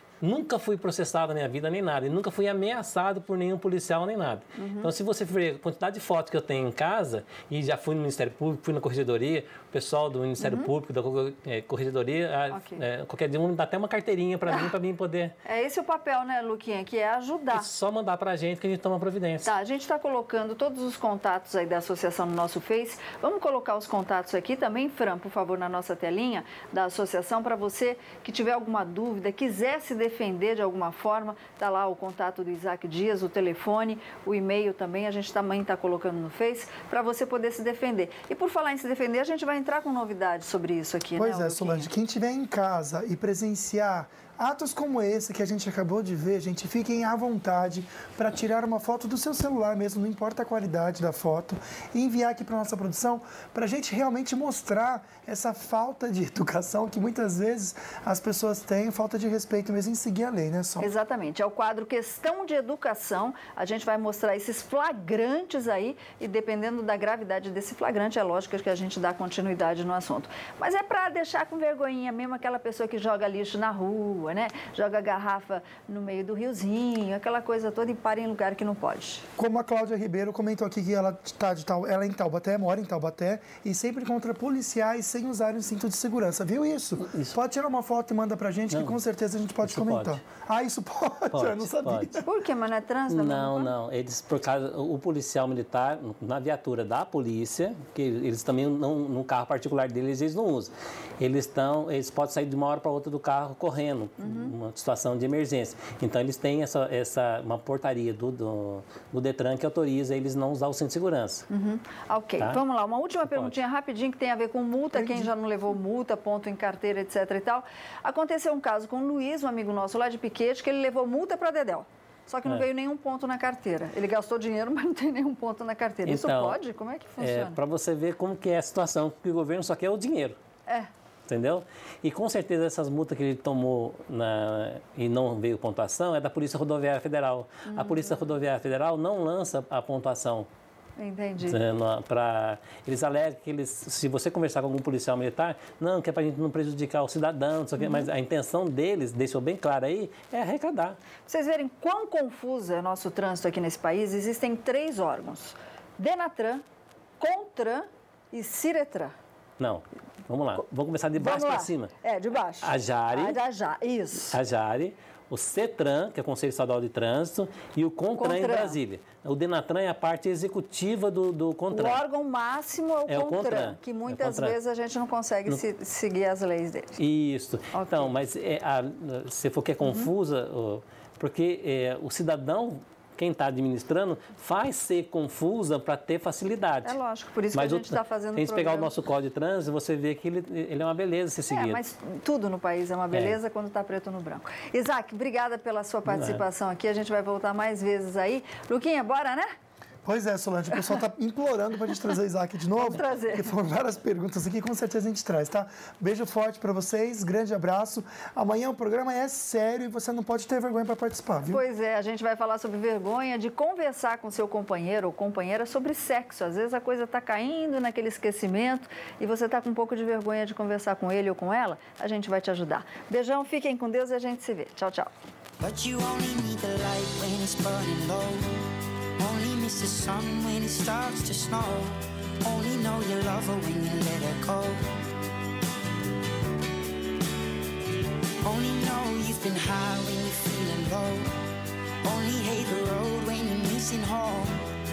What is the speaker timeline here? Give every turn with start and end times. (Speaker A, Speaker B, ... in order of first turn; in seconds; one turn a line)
Speaker A: 0.2-15.3
Speaker B: 4.6-4.9
Speaker B: 10.4-10.7
Speaker B: 12.5-12.8
Speaker B: 15.4-17.7
Speaker A: 17.5-19.5
Speaker B: 19.4-41.9
Speaker C: 41.2-60.9
Speaker B: 60.8-79.3
Speaker C: 79.4-92.2
Speaker A: 87.0-87.4
Speaker A: 88.7-89.0
Speaker A: 89.6-90.2
Speaker A: 91.3-92.1
Speaker B: 92.2-93.7
Speaker A: 93.1-111.5
Speaker B: 104.2-104.5
Speaker B: 111.5-127.6
Speaker A: 113.2-113.5
Speaker C: 114.9-115.3
Speaker A: 126.0-126.6
Speaker A: 127.2-130.4
Speaker A: 131.3-140.5
Speaker B: 137.7-138.2
Speaker B: 141.0-141.6
Speaker A: 141.4-151.0
Speaker B: 147.8-148.1
Speaker B: 151.3-156.6
Speaker B: 157.2-159.1
Speaker A: 159.6-161.9
Speaker B: 161.1-164.4
Speaker A: 162.6-163.4
Speaker A: 164.3-172.0
Speaker B: 168.2-168.8
Speaker B: 171.7-177.0
Speaker A: 173.1-174.6
Speaker A: 177.0-187.0
Speaker B: 177.7-178.1
Speaker B: 179.8-180.1
Speaker B: 186.8-188.9
Speaker A: 187.5-191.8
Speaker B: 191.5-199.5
Speaker A: 193.1-193.4
Speaker A: 196.1-196.4
Speaker C: 200.0-211.6
Speaker B: 202.8-203.5
Speaker B: 211.5-225.1
Speaker D: 225.6-228.6
Speaker D: 229.2-235.0
Speaker D: 238.4-241.3
Speaker D: 242.0-244.7